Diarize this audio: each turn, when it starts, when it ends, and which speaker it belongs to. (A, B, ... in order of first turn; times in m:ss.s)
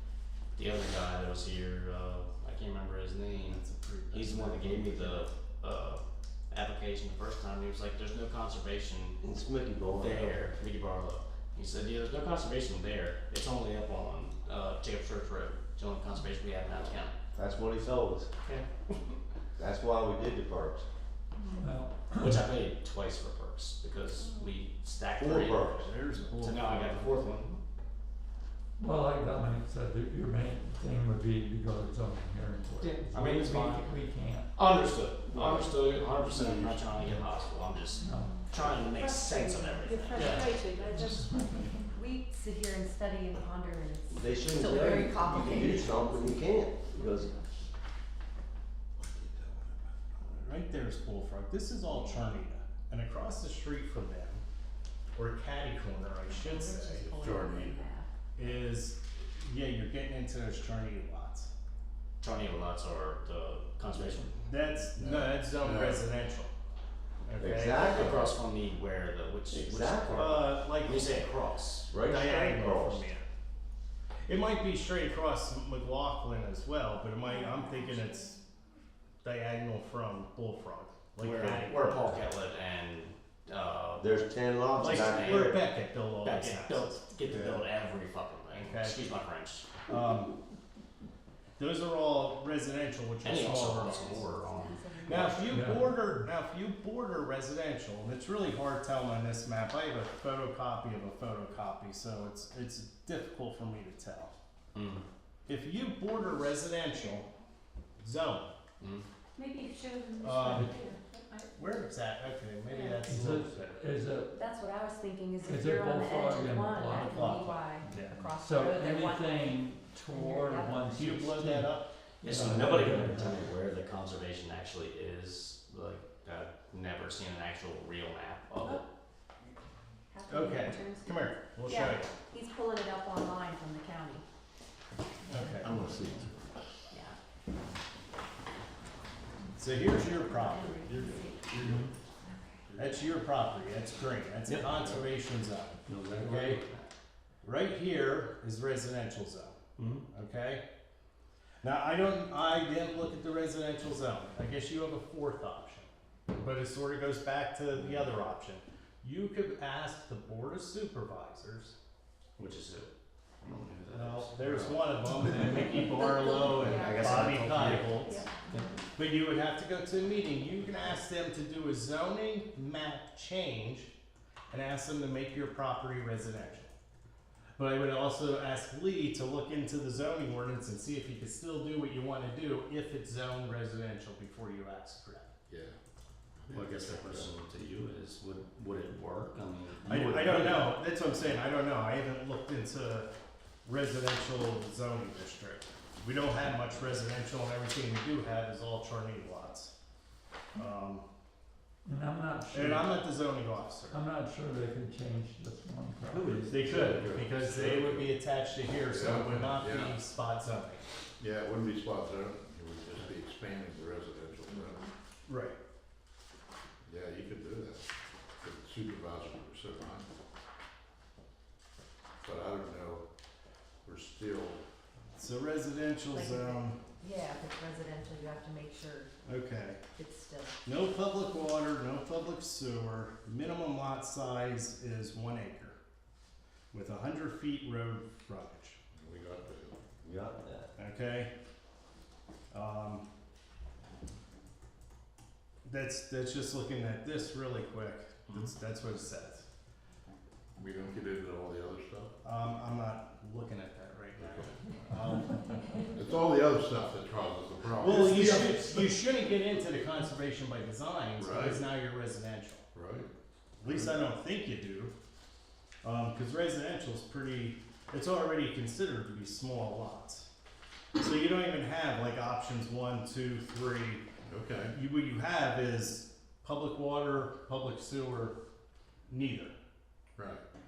0:00.6-0:09.2 A
0:03.3-0:05.3 B
0:09.2-0:10.4 C
0:09.9-0:17.1 A
0:17.3-0:18.3 C
0:18.4-0:19.1 A
0:19.6-0:20.8 C
0:21.6-0:22.4 D
0:22.2-0:25.8 A
0:24.2-0:24.5 E
0:25.2-0:25.9 C
0:25.7-0:27.3 B
0:26.4-0:27.6 A
0:28.8-0:34.5 D
0:32.8-0:33.9 A
0:34.5-0:40.7 A
0:35.3-0:35.7 C
0:36.4-0:36.8 C
0:36.9-0:37.3 D
0:38.0-0:38.8 D
0:38.0-0:38.3 E
0:39.0-0:40.3 F
0:39.8-0:41.8 E
0:40.1-0:40.5 B
0:41.0-0:41.5 D
0:41.9-0:46.3 F
0:44.1-0:47.3 C
0:50.2-0:54.4 B
0:55.1-0:57.4 B
0:56.3-0:58.1 F
0:57.2-0:57.7 G
0:58.4-1:01.5 B
1:02.2-1:04.4 A
1:04.4-1:06.5 B
1:04.9-1:06.1 G
1:07.2-1:08.2 B
1:07.4-1:08.3 C
1:07.7-1:11.9 A
1:09.5-1:10.3 C
1:10.1-1:11.2 B
1:11.9-1:13.0 C
1:12.0-1:13.3 B
1:14.2-1:18.4 B
1:17.3-1:18.1 E
1:19.2-1:22.3 B
1:21.2-1:25.6 A
1:24.0-1:25.6 C
1:24.8-1:27.5 B
1:26.2-1:29.7 A
1:27.3-1:27.6 C
1:28.5-1:29.0 B
1:29.8-1:30.3 B
1:31.6-1:34.3 B
1:33.2-1:35.5 A
1:33.6-1:35.8 F
1:35.0-1:44.3 B
1:35.5-1:35.9 D
1:44.7-1:45.0 A
1:45.4-1:47.3 B
1:48.0-1:48.5 B
1:48.8-1:49.0 A
1:49.4-1:51.5 E
1:50.2-1:50.8 B
1:50.4-1:50.7 D
1:51.6-1:53.8 B
1:52.7-1:53.0 E
1:53.0-1:54.4 D
1:54.3-2:01.0 F
1:55.4-2:03.5 D
1:57.0-1:58.2 B
2:00.9-2:01.9 B
2:02.2-2:08.8 A
2:10.1-2:14.2 F
2:10.3-2:12.1 B
2:15.3-2:15.9 B
2:15.6-2:16.6 G
2:16.9-2:17.2 F
2:19.6-2:21.8 B
2:20.0-2:21.4 F
2:22.2-2:22.6 F
2:22.8-2:26.6 B
2:24.7-2:25.0 G
2:25.9-2:26.3 C
2:26.2-2:26.8 A
2:27.4-2:29.6 B
2:29.8-2:30.0 A
2:30.1-2:30.6 B
2:31.6-2:41.7 B
2:42.4-2:42.9 A
2:43.4-2:45.0 A
2:43.9-2:48.3 B
2:46.1-2:47.3 F
2:46.5-2:48.1 C
2:47.3-2:47.7 A
2:48.0-2:48.6 F
2:48.9-2:53.9 B
2:54.5-2:56.7 B
2:57.6-3:05.3 B
3:05.5-3:05.7 G
3:06.4-3:07.3 G
3:06.5-3:10.6 A
3:09.8-3:13.1 B
3:13.6-3:19.7 B
3:20.5-3:21.0 B
3:21.8-3:23.0 D
3:22.5-3:24.0 B
3:23.9-3:27.0 D
3:26.1-3:26.8 C
3:26.5-3:30.8 B
3:26.8-3:28.2 G
3:28.8-3:30.0 G
3:31.2-3:34.9 G
3:35.3-3:35.6 B
3:36.8-3:37.8 G
3:38.4-3:40.1 G
3:42.2-3:43.0 G
3:43.8-3:44.6 G
3:45.2-3:46.8 B
3:46.1-3:49.1 F
3:49.2-3:49.8 B
3:49.9-3:50.6 F
3:50.6-3:55.8 B
3:56.7-3:58.8 B
3:58.9-3:59.8 G
4:00.0-4:00.7 C
4:00.8-4:01.3 B
4:02.5-4:03.0 B
4:05.6-4:09.4 B
4:10.6-4:12.1 G
4:12.2-4:15.8 B
4:14.2-4:14.5 G
4:15.9-4:19.0 G
4:17.8-4:22.7 B
4:21.2-4:21.7 G
4:22.7-4:23.1 G
4:23.6-4:24.9 B
4:23.6-4:24.0 G
4:25.8-4:30.3 B
4:31.0-4:34.0 B
4:34.3-4:34.8 G
4:34.7-4:38.4 B
4:39.1-4:39.5 B
4:40.2-4:40.4 G